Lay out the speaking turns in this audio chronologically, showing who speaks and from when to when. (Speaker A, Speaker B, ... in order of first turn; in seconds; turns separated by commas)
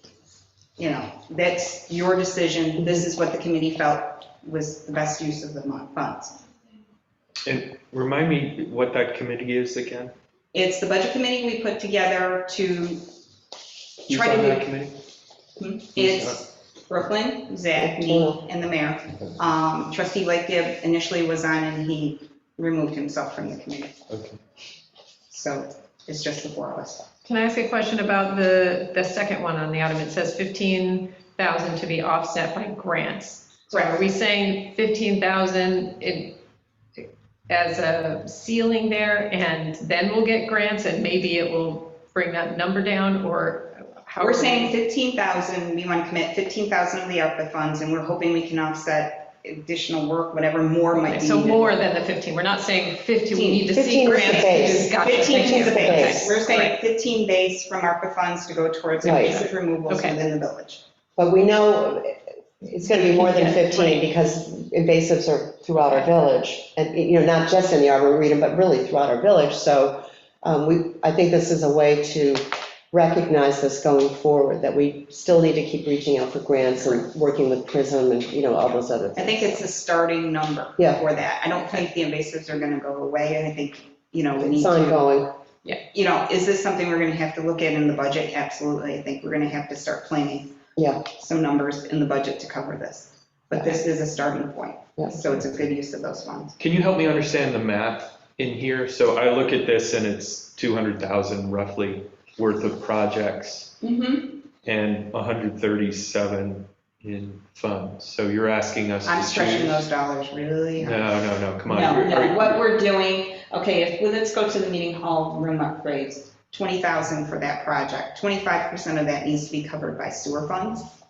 Speaker A: 0.8-6.3, Speaker B: 7.5-10.1, Speaker A: 10.5-13.1, Speaker A: 14.1-14.7, Speaker B: 14.1-14.9, Speaker A: 15.6-24.0, Speaker B: 15.9-16.4, Speaker C: 17.8-18.4, Speaker B: 24.1-24.4, Speaker A: 25.3-27.1, Speaker D: 27.2-36.4, Speaker A: 33.7-34.0, Speaker D: 37.0-44.7, Speaker A: 44.2-51.7, Speaker D: 51.0-56.7, Speaker A: 53.3-60.8, Speaker C: 53.7-56.4, Speaker C: 59.0-59.4, Speaker D: 59.9-60.2, Speaker C: 61.2-79.6, Speaker D: 63.0-64.0, Speaker A: 79.2-85.1, Speaker C: 84.4-85.3, Speaker A: 85.8-90.5, Speaker C: 90.8-91.0, Speaker A: 91.0-96.5, Speaker C: 93.5-93.8, Speaker B: 96.6-103.8, Speaker A: 103.8-104.4, Speaker B: 104.6-109.9, Speaker A: 109.0-111.1, Speaker B: 110.8-112.6, Speaker A: 111.7-120.9